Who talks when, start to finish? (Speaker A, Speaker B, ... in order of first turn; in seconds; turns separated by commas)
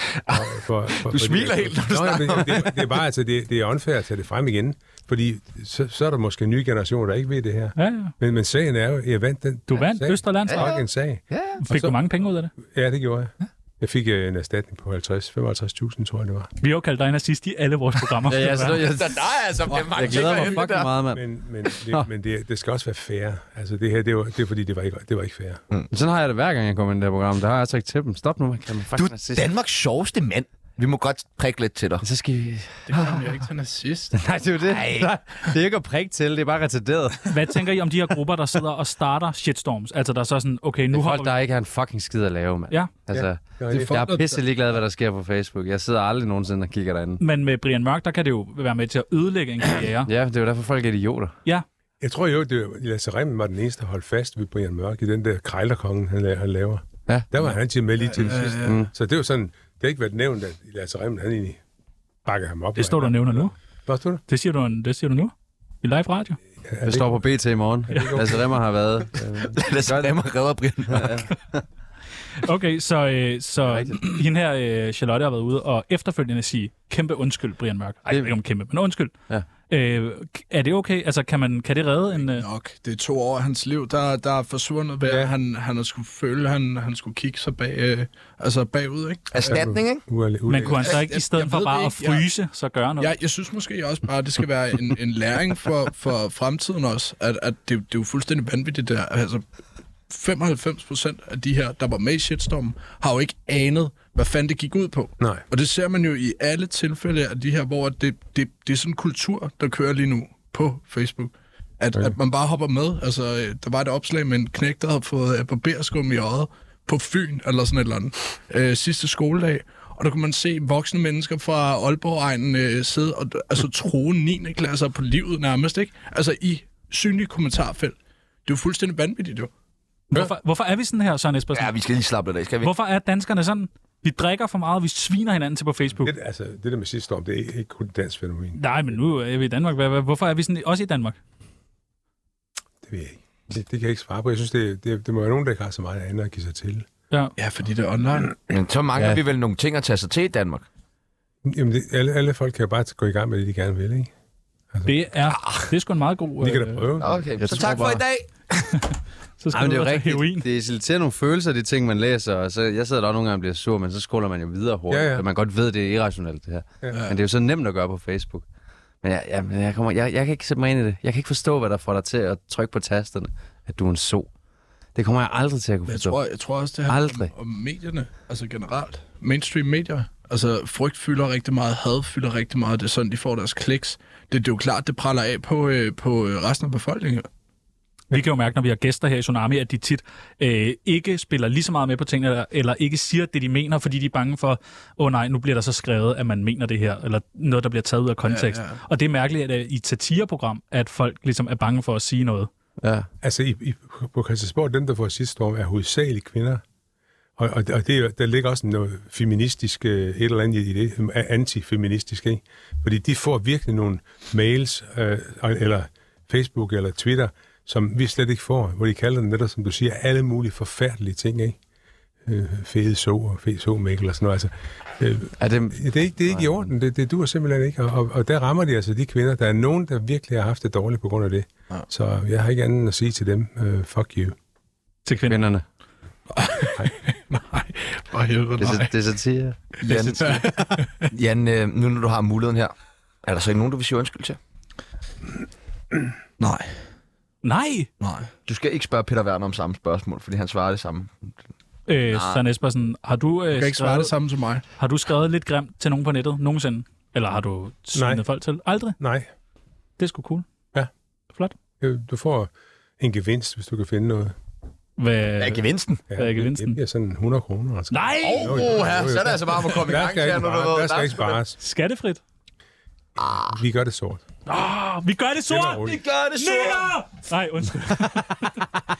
Speaker A: 0.1-3.0, Speaker B: 0.3-12.0, Speaker C: 7.8-8.1, Speaker C: 9.7-10.7, Speaker A: 10.5-11.6, Speaker C: 11.6-12.5, Speaker B: 12.5-16.5, Speaker C: 16.6-18.9, Speaker D: 18.3-19.2, Speaker A: 18.8-20.9, Speaker E: 19.7-20.6, Speaker D: 19.9-21.2, Speaker B: 21.1-25.6, Speaker D: 25.9-29.5, Speaker A: 28.9-32.0, Speaker D: 32.0-33.0, Speaker E: 32.9-34.2, Speaker D: 34.1-37.4, Speaker A: 34.6-35.1, Speaker C: 37.3-41.3, Speaker D: 40.9-47.2, Speaker B: 43.6-44.2, Speaker E: 43.7-44.4, Speaker C: 47.2-50.1, Speaker D: 50.0-51.3, Speaker B: 52.0-61.6, Speaker E: 58.0-58.8, Speaker D: 58.6-58.9, Speaker B: 62.2-64.2, Speaker C: 62.8-63.5, Speaker C: 64.3-66.4, Speaker B: 66.7-67.2, Speaker D: 66.8-70.2, Speaker B: 67.9-68.5, Speaker A: 69.5-71.2, Speaker D: 70.9-71.6, Speaker C: 72.4-79.1, Speaker D: 73.6-74.0, Speaker D: 78.1-78.3, Speaker C: 79.7-82.5, Speaker E: 82.2-89.6, Speaker B: 85.1-85.3, Speaker A: 89.3-90.0, Speaker B: 89.5-91.0, Speaker C: 90.5-93.1, Speaker E: 90.7-92.3, Speaker E: 93.0-99.4, Speaker E: 100.1-129.5, Speaker B: 105.2-105.4, Speaker C: 130.1-131.7, Speaker A: 131.5-132.7, Speaker C: 132.6-136.1, Speaker B: 136.0-139.0, Speaker C: 138.6-141.2, Speaker B: 142.8-146.9, Speaker E: 147.4-148.3, Speaker A: 148.5-150.6, Speaker B: 151.4-154.1, Speaker C: 154.8-156.9, Speaker A: 155.3-155.7, Speaker B: 156.4-157.2, Speaker A: 157.0-158.7, Speaker D: 157.4-158.0, Speaker C: 159.4-160.4, Speaker D: 159.5-168.4, Speaker B: 164.9-165.2, Speaker D: 169.0-174.3, Speaker D: 174.9-176.2, Speaker E: 175.9-187.3, Speaker D: 176.8-177.3, Speaker C: 188.1-202.5, Speaker E: 198.3-198.8, Speaker D: 202.8-203.1, Speaker B: 203.2-206.6, Speaker B: 207.4-221.6, Speaker B: 222.2-234.3, Speaker D: 225.4-226.7, Speaker C: 235.1-235.4, Speaker D: 235.3-235.6, Speaker E: 236.3-238.9, Speaker D: 238.6-239.6, Speaker A: 239.8-240.4, Speaker C: 239.9-240.4, Speaker E: 240.2-241.1, Speaker A: 241.1-242.7, Speaker A: 243.2-244.4, Speaker E: 246.4-246.7, Speaker C: 247.4-247.9, Speaker E: 248.0-248.3, Speaker A: 248.5-251.1, Speaker C: 251.9-254.1, Speaker A: 252.1-252.4, Speaker E: 253.5-254.6, Speaker C: 254.8-259.0, Speaker B: 257.9-258.2, Speaker B: 259.0-259.3, Speaker C: 260.0-260.4, Speaker B: 261.8-264.3, Speaker C: 265.0-266.8, Speaker A: 265.4-266.0, Speaker B: 266.1-271.6, Speaker C: 267.9-268.7, Speaker A: 268.2-271.4, Speaker C: 271.6-272.2, Speaker A: 273.2-273.6, Speaker B: 273.5-274.2, Speaker C: 274.4-278.7, Speaker B: 275.5-276.0, Speaker A: 275.8-276.9